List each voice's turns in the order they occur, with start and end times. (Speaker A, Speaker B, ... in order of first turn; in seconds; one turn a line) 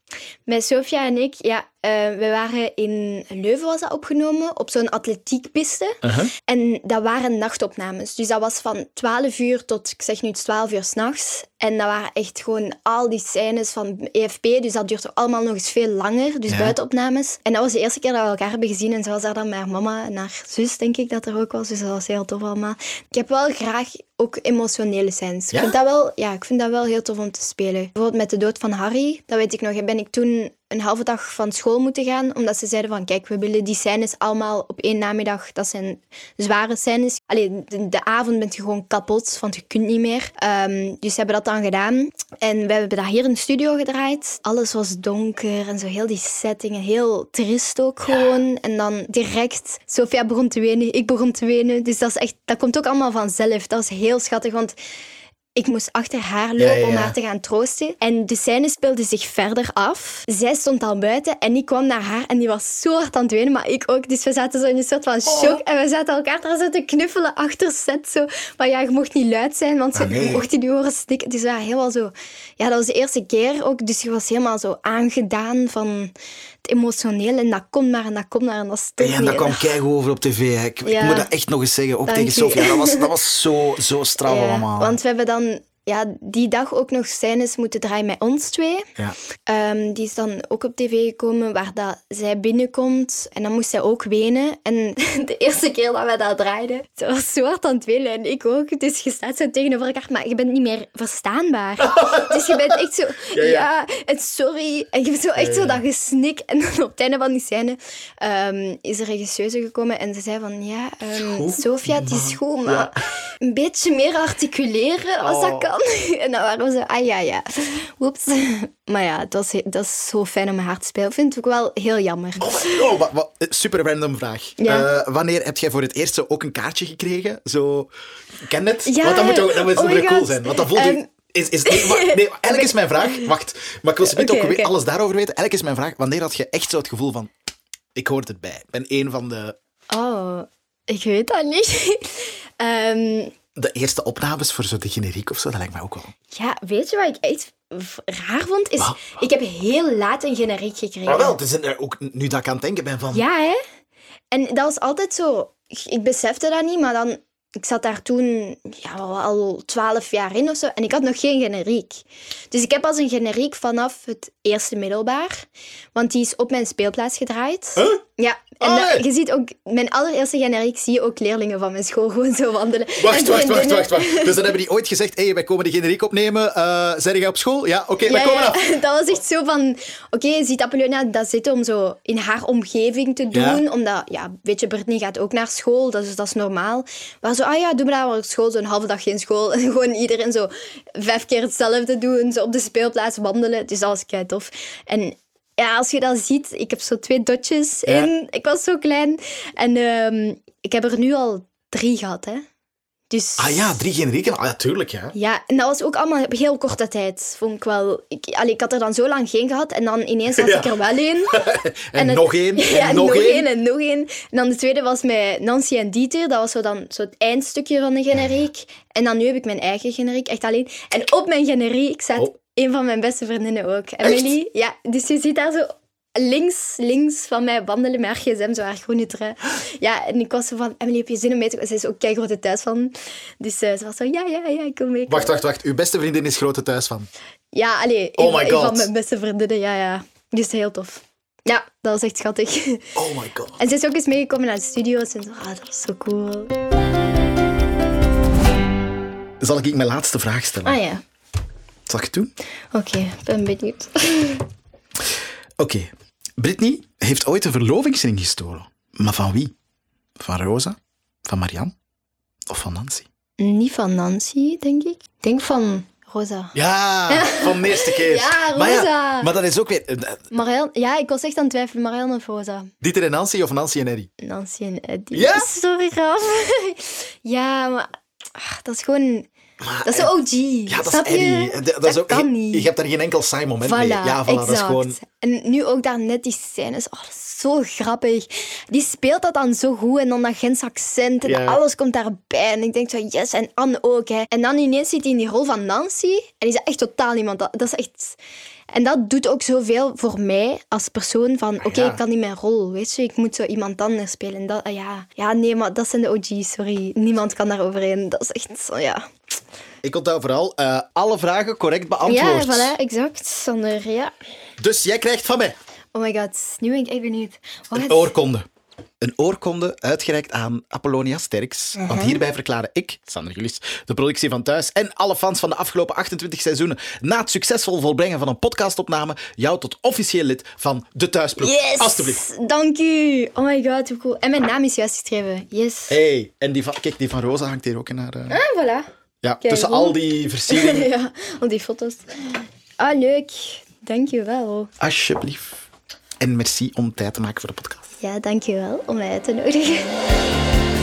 Speaker A: 0.5-54.8
Speaker B: 6.0-6.3
Speaker B: 16.5-16.8
Speaker A: 55.5-79.7
Speaker B: 56.6-57.1
Speaker B: 65.3-65.6
Speaker B: 69.9-70.4
Speaker B: 79.0-85.0
Speaker A: 80.8-81.3
Speaker A: 82.1-83.1
Speaker A: 84.2-88.9
Speaker A: 89.5-122.9
Speaker B: 101.8-102.8
Speaker B: 103.3-103.7
Speaker B: 105.4-105.8
Speaker B: 111.1-113.0
Speaker B: 115.2-115.7
Speaker B: 122.4-127.9
Speaker A: 124.6-124.9
Speaker B: 128.4-137.3
Speaker A: 128.8-131.1
Speaker A: 131.7-133.3
Speaker A: 134.0-134.7
Speaker B: 137.9-139.6
Speaker A: 139.9-143.3
Speaker B: 143.5-146.1
Speaker A: 146.3-151.4
Speaker B: 151.1-153.2
Speaker A: 153.1-153.6
Speaker A: 154.3-174.6
Speaker B: 167.8-168.0
Speaker B: 168.6-169.1
Speaker B: 173.0-178.7
Speaker A: 178.0-202.4
Speaker B: 183.3-183.6
Speaker A: 203.1-203.8
Speaker B: 203.4-205.1
Speaker A: 205.1-235.4
Speaker B: 210.3-210.7
Speaker B: 211.3-213.5
Speaker B: 235.1-237.1
Speaker A: 237.5-242.9
Speaker B: 238.2-238.9
Speaker B: 242.9-243.6
Speaker A: 243.6-246.5
Speaker B: 249.4-250.8
Speaker A: 250.6-251.0
Speaker B: 251.9-252.3
Speaker A: 252.7-254.4
Speaker B: 255.6-259.5
Speaker B: 260.2-261.7
Speaker B: 262.5-263.1
Speaker A: 263.4-266.5
Speaker B: 266.5-270.2
Speaker A: 267.1-269.3
Speaker A: 270.3-272.7
Speaker B: 272.8-274.1
Speaker A: 274.2-279.3
Speaker B: 275.1-275.5
Speaker B: 279.6-280.1
Speaker A: 279.8-282.7
Speaker B: 280.7-285.0
Speaker A: 283.6-298.2
Speaker B: 291.2-291.6
Speaker A: 298.7-309.1
Speaker B: 301.6-302.0
Speaker B: 309.8-312.7
Speaker A: 312.0-314.1
Speaker B: 314.6-315.5
Speaker A: 315.9-318.1
Speaker B: 317.7-318.4
Speaker B: 319.0-332.2
Speaker A: 321.8-322.2
Speaker A: 331.4-336.0
Speaker B: 335.9-338.4
Speaker A: 338.3-338.9
Speaker B: 339.2-340.9
Speaker A: 339.4-344.7
Speaker B: 344.8-345.6
Speaker B: 346.2-347.9
Speaker A: 348.0-349.9